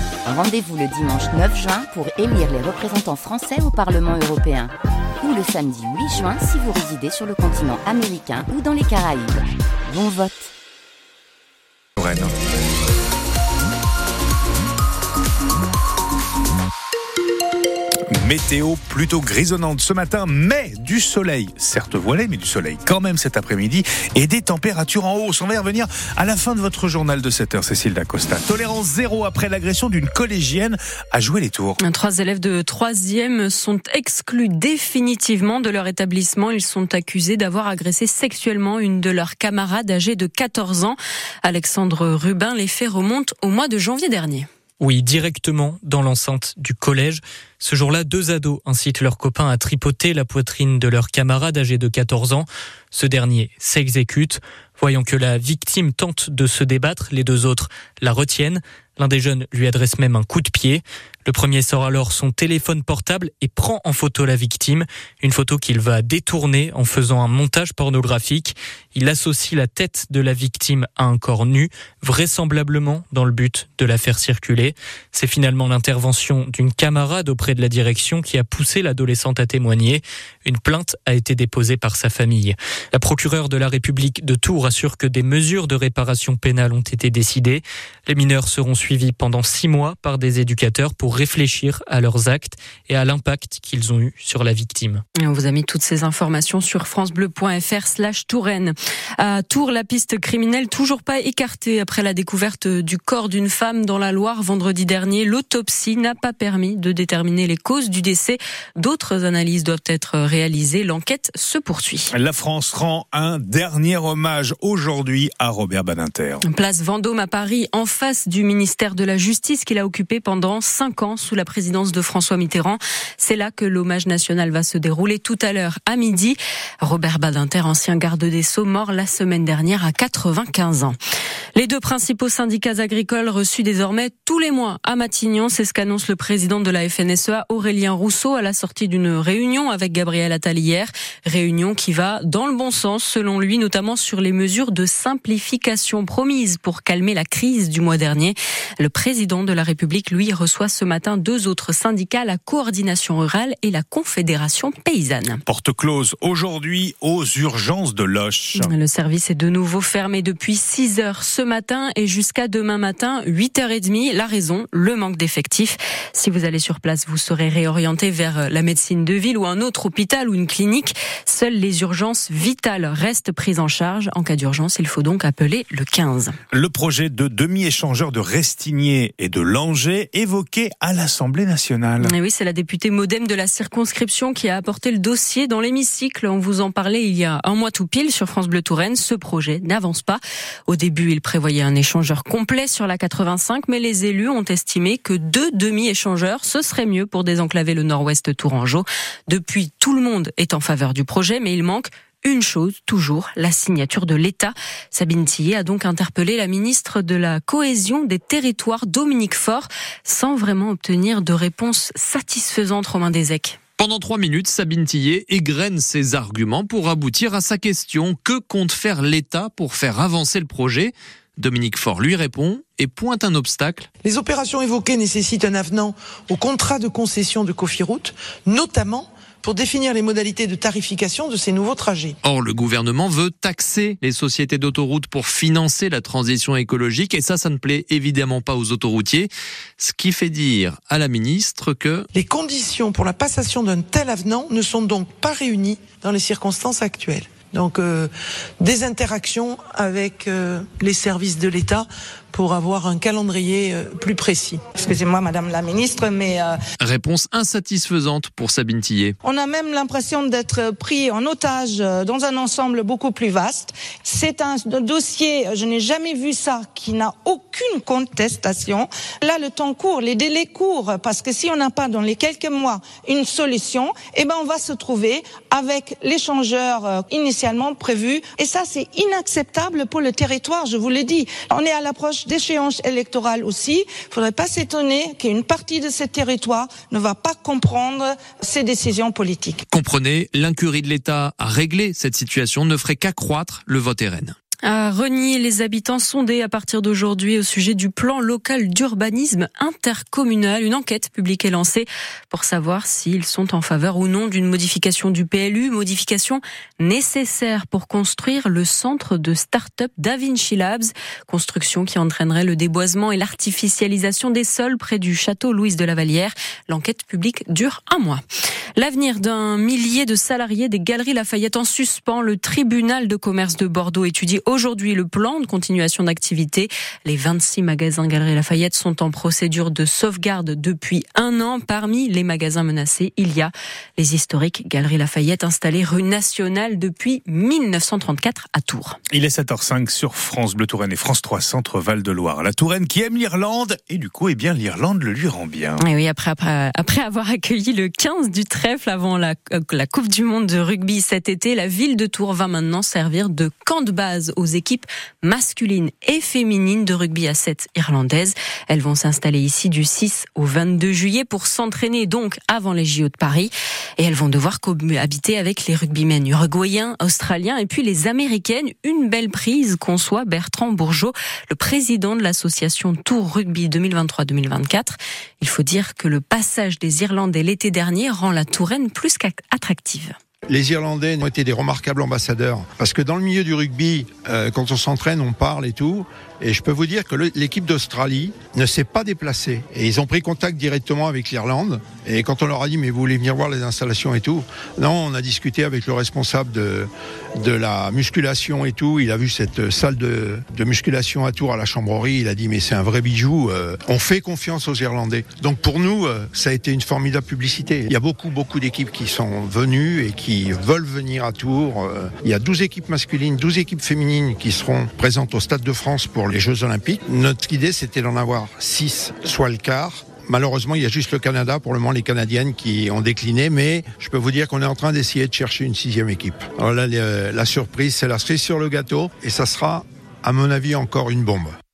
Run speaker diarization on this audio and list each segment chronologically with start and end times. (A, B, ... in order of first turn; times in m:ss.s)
0:00.2-0:10.5 A
0:12.0-0:12.3 B
0:18.1-0:31.8 B
0:31.8-0:44.4 C
0:44.8-1:35.0 D
1:35.2-1:52.1 C
1:52.1-1:56.4 B
1:56.4-2:11.0 C
2:11.5-2:35.4 C
2:35.5-2:38.7 B
2:38.5-2:56.3 C
2:56.5-3:02.1 B
3:02.0-3:33.6 C
3:33.8-3:43.8 E
3:44.0-3:52.2 F
3:52.2-4:02.1 E
4:02.1-4:08.1 F
4:08.6-4:14.6 F
4:14.7-4:16.6 G
4:16.8-4:19.2 E
4:19.2-4:49.6 G
4:49.7-4:54.3 E
4:54.6-5:18.2 C
5:18.8-5:39.0 C
5:39.1-5:45.8 B
5:45.8-6:20.1 C
6:20.5-7:11.5 H